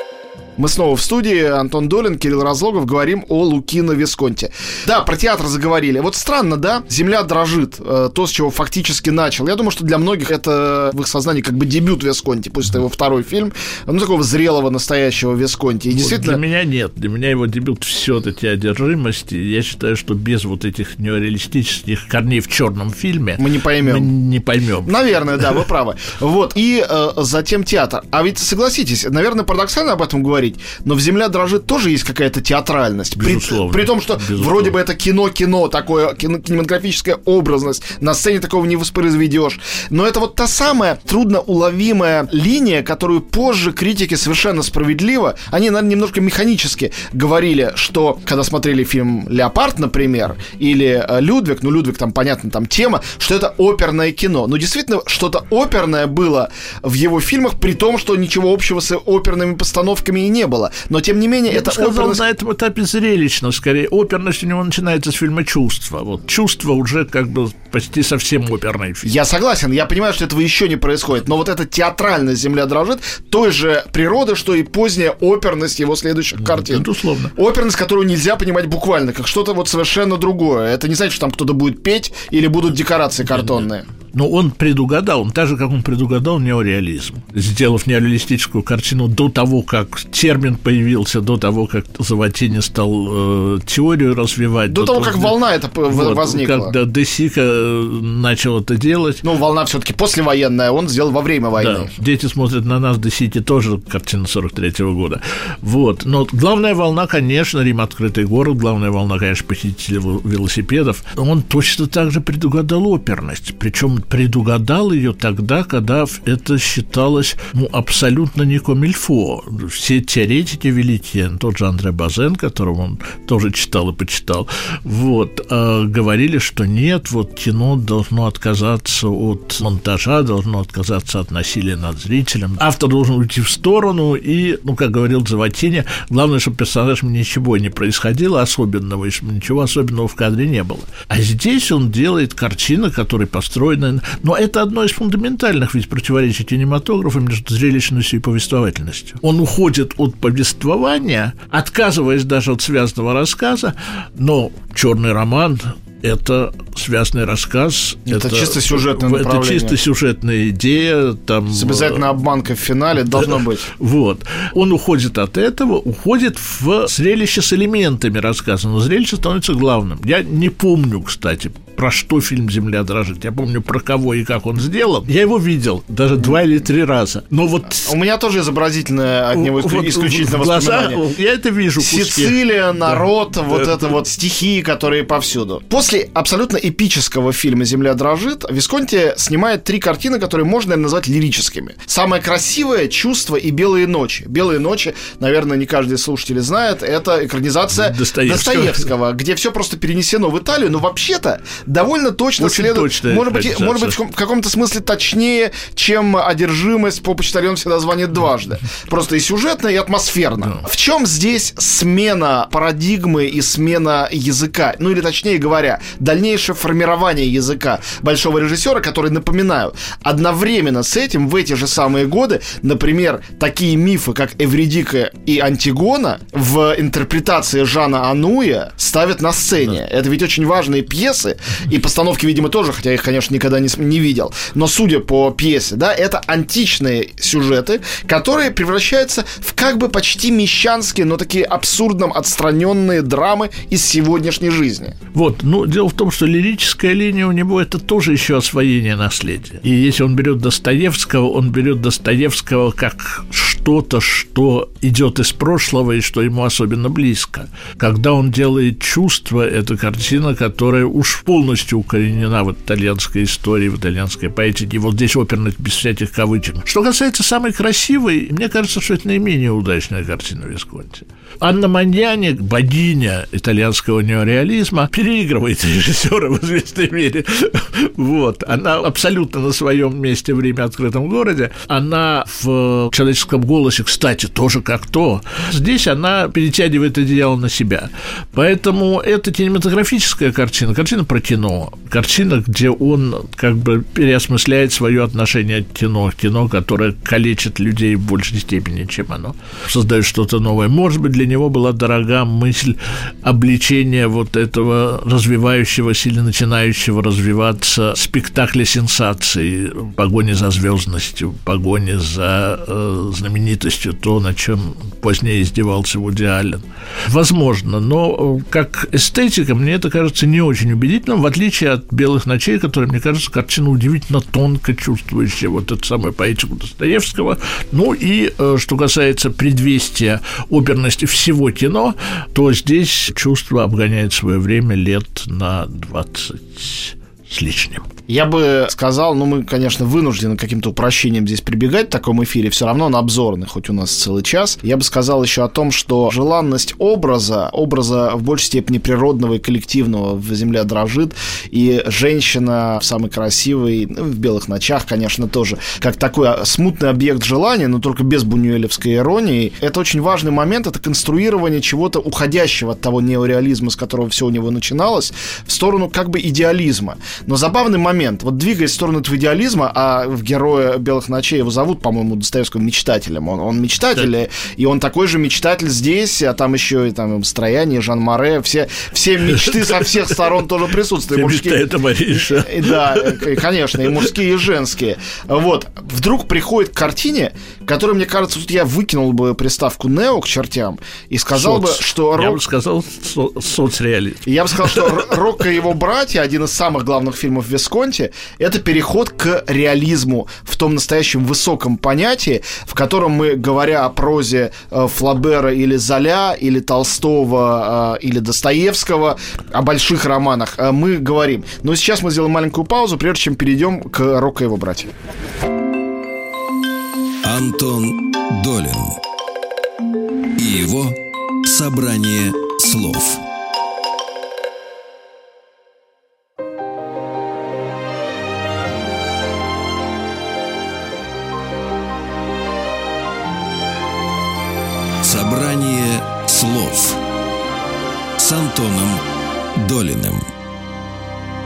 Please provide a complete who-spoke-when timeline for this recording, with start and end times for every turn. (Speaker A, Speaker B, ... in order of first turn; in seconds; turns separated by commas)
Speaker A: 0.6-16.4, Speaker B: 15.9-25.6, Speaker A: 23.4-24.1, Speaker A: 24.9-62.2, Speaker B: 33.2-34.8, Speaker B: 61.5-69.1, Speaker A: 69.0-83.8, Speaker B: 76.4-77.3, Speaker B: 84.1-95.3, Speaker A: 94.7-96.7, Speaker B: 95.9-99.2, Speaker A: 99.2-101.9, Speaker B: 101.6-162.0, Speaker A: 158.1-159.8, Speaker A: 161.5-163.7, Speaker B: 163.1-177.9, Speaker A: 177.8-181.0, Speaker B: 179.3-183.6, Speaker A: 181.8-244.9, Speaker B: 197.7-198.9, Speaker B: 202.4-204.0, Speaker B: 245.1-337.9, Speaker A: 338.1-392.4, Speaker B: 379.5-380.2, Speaker B: 381.1-383.3, Speaker B: 391.3-395.0, Speaker A: 394.2-414.9, Speaker C: 417.2-419.0, Speaker C: 420.4-423.2, Speaker C: 435.0-437.0, Speaker C: 438.2-439.0, Speaker C: 439.6-440.2